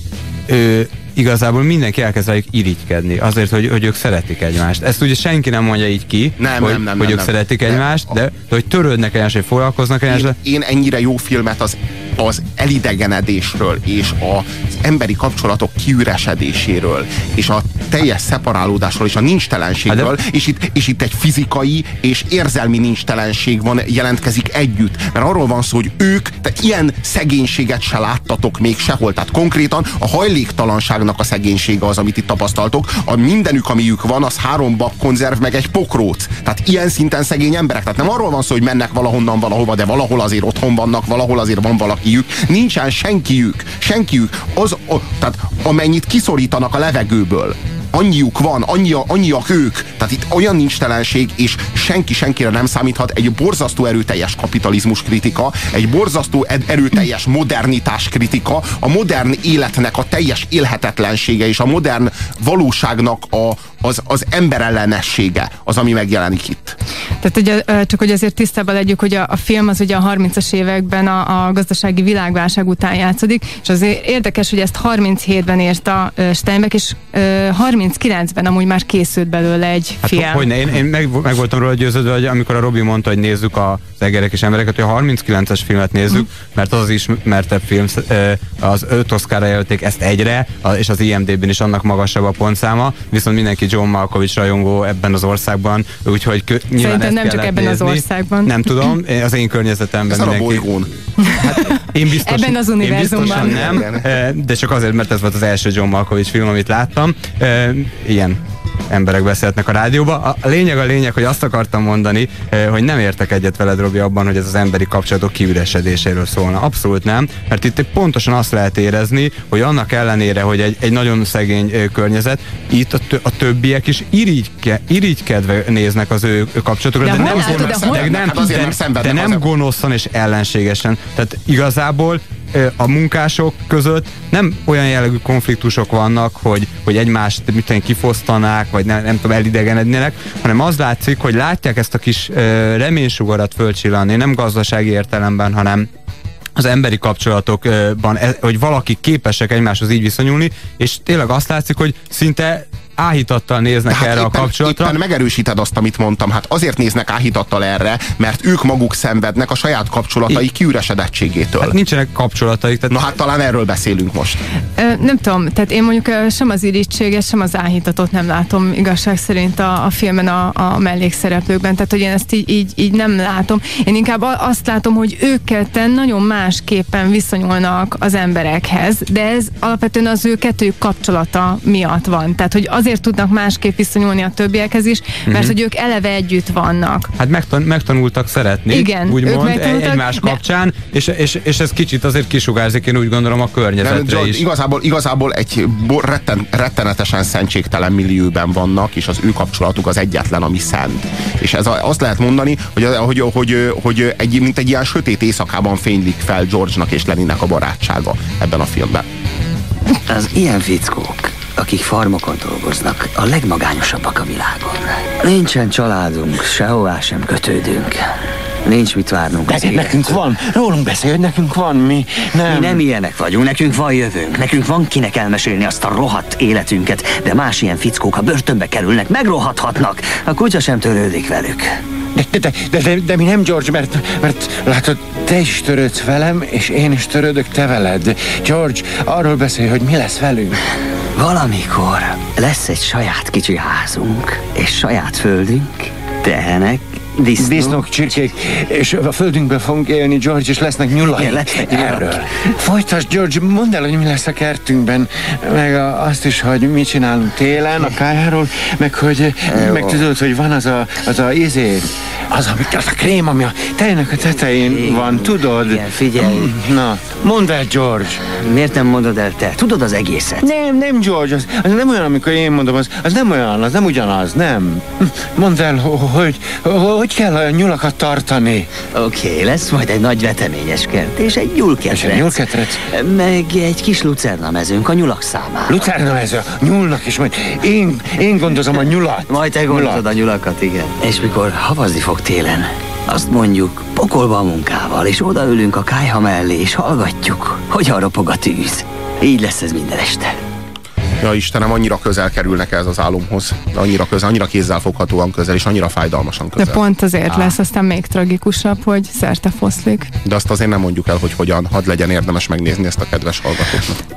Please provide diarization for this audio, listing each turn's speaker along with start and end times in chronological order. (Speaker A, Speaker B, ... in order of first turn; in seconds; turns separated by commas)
Speaker A: 0.5-10.3, Speaker B: 6.4-8.0, Speaker B: 10.1-66.8, Speaker A: 19.9-20.1, Speaker C: 67.2-80.5, Speaker A: 80.0-100.7, Speaker C: 96.8-98.9, Speaker B: 100.1-100.9, Speaker C: 101.2-103.9, Speaker A: 101.4-145.9, Speaker B: 103.0-104.1, Speaker C: 127.0-128.1, Speaker B: 127.1-129.4, Speaker A: 146.6-155.0, Speaker B: 153.9-161.8, Speaker A: 161.6-163.0, Speaker B: 162.9-164.4, Speaker C: 164.8-187.1, Speaker A: 185.3-185.5, Speaker A: 187.2-194.4, Speaker C: 188.7-190.4, Speaker B: 193.8-209.0, Speaker D: 210.1-218.1, Speaker D: 218.6-220.2, Speaker E: 219.5-222.8, Speaker D: 222.4-231.7, Speaker E: 232.1-240.6, Speaker D: 241.2-247.8, Speaker E: 247.4-268.3, Speaker D: 251.0-252.2, Speaker D: 259.5-260.0, Speaker D: 264.6-266.6, Speaker D: 268.3-270.4, Speaker E: 270.4-278.8, Speaker D: 278.9-282.4, Speaker E: 281.9-282.9, Speaker D: 282.9-285.8, Speaker E: 285.7-290.1, Speaker D: 289.3-300.3, Speaker B: 301.2-306.8, Speaker C: 306.6-310.1, Speaker B: 310.2-314.0